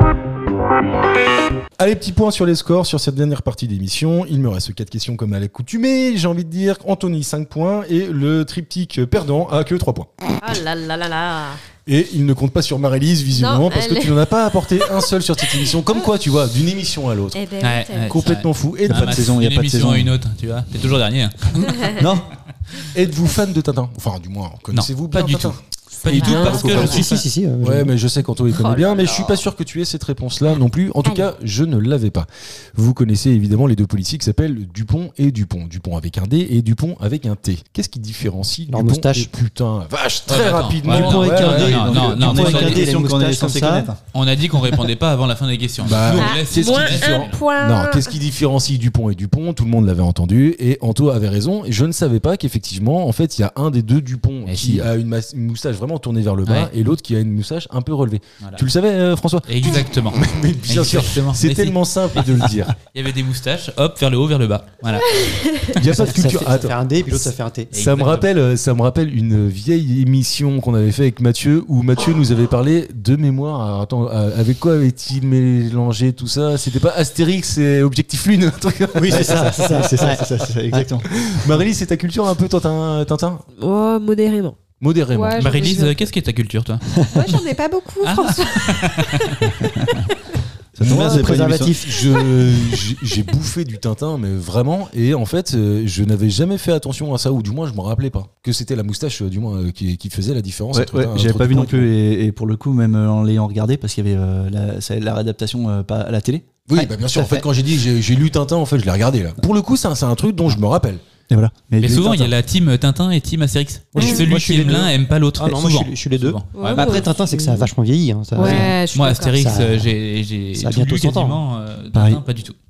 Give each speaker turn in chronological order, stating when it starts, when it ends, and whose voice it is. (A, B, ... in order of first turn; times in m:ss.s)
0:01.8-0:10.4 A
0:10.4-0:11.6 B
0:11.9-0:17.4 A
0:13.3-0:15.7 B
0:17.3-0:18.3 B
0:17.6-0:21.9 C
0:18.1-0:19.3 A
0:18.9-0:20.1 D
0:21.6-0:22.0 B
0:21.9-0:22.3 D
0:22.9-0:27.0 A
0:24.7-0:27.2 C
0:26.1-0:27.1 B
0:26.4-0:27.9 E
0:27.6-0:41.9 A
0:28.5-0:29.4 B
0:38.7-0:39.3 E
0:40.3-0:42.9 C
0:40.8-0:43.9 E
0:41.0-0:44.0 D
0:44.1-0:47.4 C
0:45.8-1:02.7 A
0:46.1-0:48.2 B
0:54.4-0:54.9 C
0:56.4-0:56.7 C
0:59.5-1:05.2 C
1:05.0-1:05.8 B
1:05.7-1:19.7 A
1:05.8-1:07.7 E
1:07.7-1:08.3 C
1:19.0-1:20.9 E
1:19.0-1:21.1 D
1:21.1-1:23.4 A
1:23.6-1:26.1 B
1:24.8-1:25.7 A
1:25.4-1:26.8 C
1:26.9-1:27.2 E
1:27.1-1:29.5 B
1:28.0-1:29.5 C
1:30.7-1:31.8 D
1:30.8-1:41.9 A
1:30.8-1:32.2 E
1:40.7-1:46.4 D
1:46.7-1:51.0 A
1:46.8-1:47.5 E
1:51.3-1:52.3 D
1:51.8-1:57.1 C
1:53.9-1:58.8 E
1:56.6-1:57.7 B
1:58.4-1:59.4 B
1:58.4-1:58.7 D
1:58.9-2:02.6 C
1:59.3-1:59.9 E
2:00.6-2:01.4 E
2:01.9-2:02.2 D